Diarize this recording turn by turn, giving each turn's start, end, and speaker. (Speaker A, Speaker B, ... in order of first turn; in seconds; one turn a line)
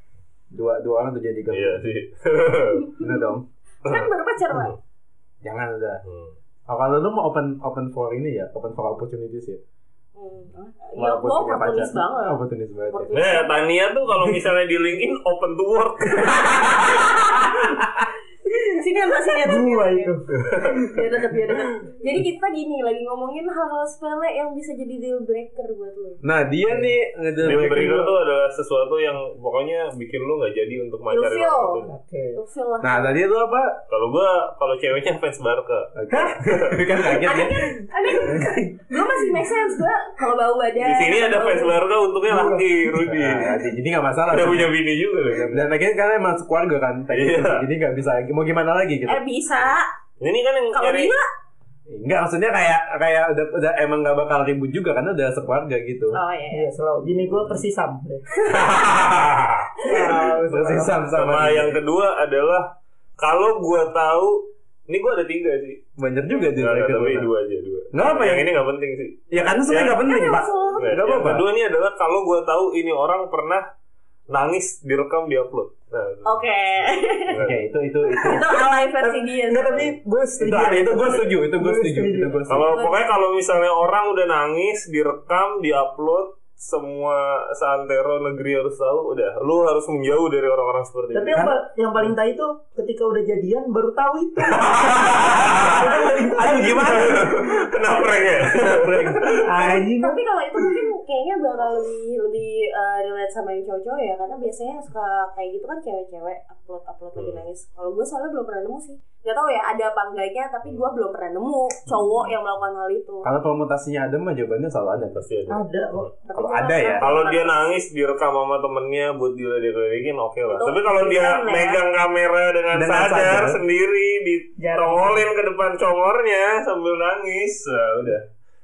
Speaker A: 0.5-1.8
Speaker B: 1.5-2.9
Speaker C: 2.9-3.3
Speaker A: 3.0-3.5
Speaker C: 3.9-4.7
Speaker B: 3.9-4.8
Speaker A: 5.4-6.0
Speaker B: 6.0-6.3
Speaker A: 6.7-9.6
Speaker C: 10.2-12.4
Speaker A: 11.0-13.2
Speaker C: 12.9-13.6
Speaker B: 13.1-17.4
Speaker A: 16.3-17.9
Speaker C: 18.5-20.2
Speaker D: 19.3-20.9
Speaker B: 20.4-20.9
Speaker C: 20.9-26.2
Speaker A: 26.2-28.1
Speaker D: 26.7-26.9
Speaker B: 27.4-31.9
Speaker D: 27.7-28.0
Speaker C: 31.1-31.8
Speaker D: 31.9-32.4
Speaker C: 32.4-33.2
Speaker A: 32.8-33.8
Speaker B: 33.9-36.8
Speaker A: 36.0-38.7
Speaker C: 37.2-41.8
Speaker B: 40.8-43.6
Speaker D: 42.3-42.7
Speaker A: 43.0-44.7
Speaker B: 44.3-45.7
Speaker A: 45.3-49.2
Speaker B: 47.1-47.6
Speaker C: 49.1-49.9
Speaker B: 50.2-51.1
Speaker C: 50.7-51.3
Speaker A: 51.9-56.2
Speaker C: 56.1-56.7
Speaker D: 56.5-58.3
Speaker B: 58.5-59.7
Speaker D: 59.8-61.0
Speaker A: 59.9-61.8
Speaker B: 61.1-62.7
Speaker B: 63.2-65.8
Speaker A: 66.0-67.3
Speaker B: 66.5-70.1
Speaker A: 67.9-68.5
Speaker A: 69.3-71.5
Speaker C: 70.0-71.0
Speaker B: 70.8-73.6
Speaker B: 74.3-76.4
Speaker C: 76.2-77.4
Speaker B: 77.3-77.6
Speaker A: 77.4-78.5
Speaker C: 78.1-79.9
Speaker D: 79.0-82.5
Speaker A: 80.4-82.7
Speaker B: 81.0-81.3
Speaker B: 82.5-91.5
Speaker C: 82.6-83.1
Speaker D: 91.1-97.3
Speaker A: 94.7-97.7
Speaker B: 95.1-95.8
Speaker B: 96.5-99.5
Speaker A: 98.3-99.9
Speaker D: 99.4-100.2
Speaker C: 99.6-113.3
Speaker B: 107.2-107.4
Speaker A: 113.2-115.2
Speaker B: 115.1-116.0
Speaker D: 115.5-116.1
Speaker C: 116.3-117.6
Speaker A: 116.3-117.1
Speaker B: 117.0-128.3
Speaker C: 120.5-121.8
Speaker A: 122.7-123.6
Speaker D: 124.6-125.2